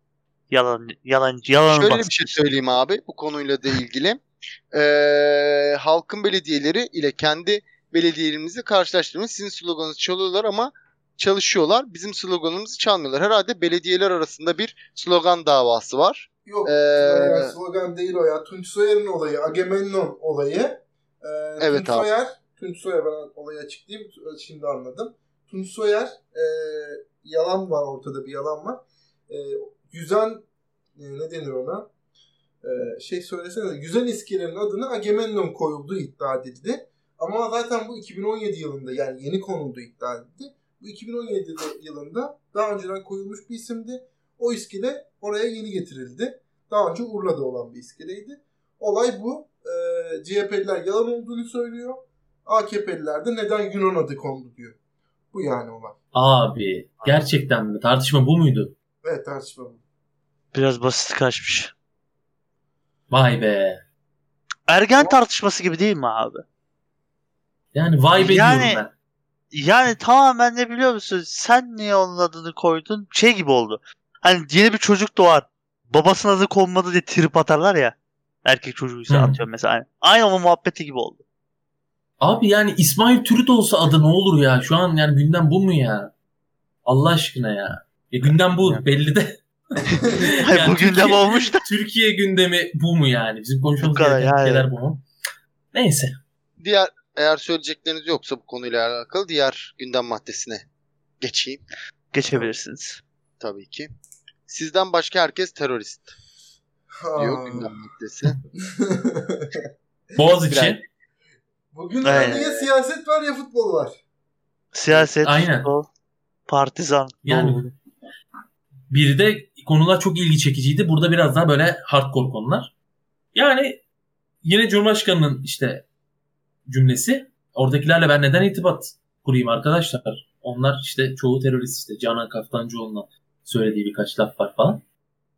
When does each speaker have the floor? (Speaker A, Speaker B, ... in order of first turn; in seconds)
Speaker A: 0.5-2.4, 60.5-61.7, 64.7-66.4, 68.1-68.8, 69.5-81.2, 88.6-88.8, 90.4-91.7, 93.8-94.7, 102.1-103.0, 112.0-112.5, 114.7-115.9, 116.5-117.7
Speaker B: 1.7-17.5, 21.6-22.1, 96.6-100.7, 101.2-101.6, 103.4-103.9, 104.5-106.1, 107.2-108.4, 110.5-110.8, 112.1-112.7
Speaker C: 16.5-30.4, 31.0-31.9, 32.6-54.8, 55.3-56.0, 59.0-59.8, 90.0-90.3, 107.0-107.7, 108.6-109.7, 111.7-114.0
Speaker D: 56.1-58.7, 63.1-63.8, 67.7-68.9, 79.1-79.4, 82.2-86.1, 86.9-95.0, 95.7-96.2, 110.2-110.8, 115.2-115.7, 117.3-117.7, 118.9-122.7, 123.3-123.8, 124.4-125.8, 126.7-134.8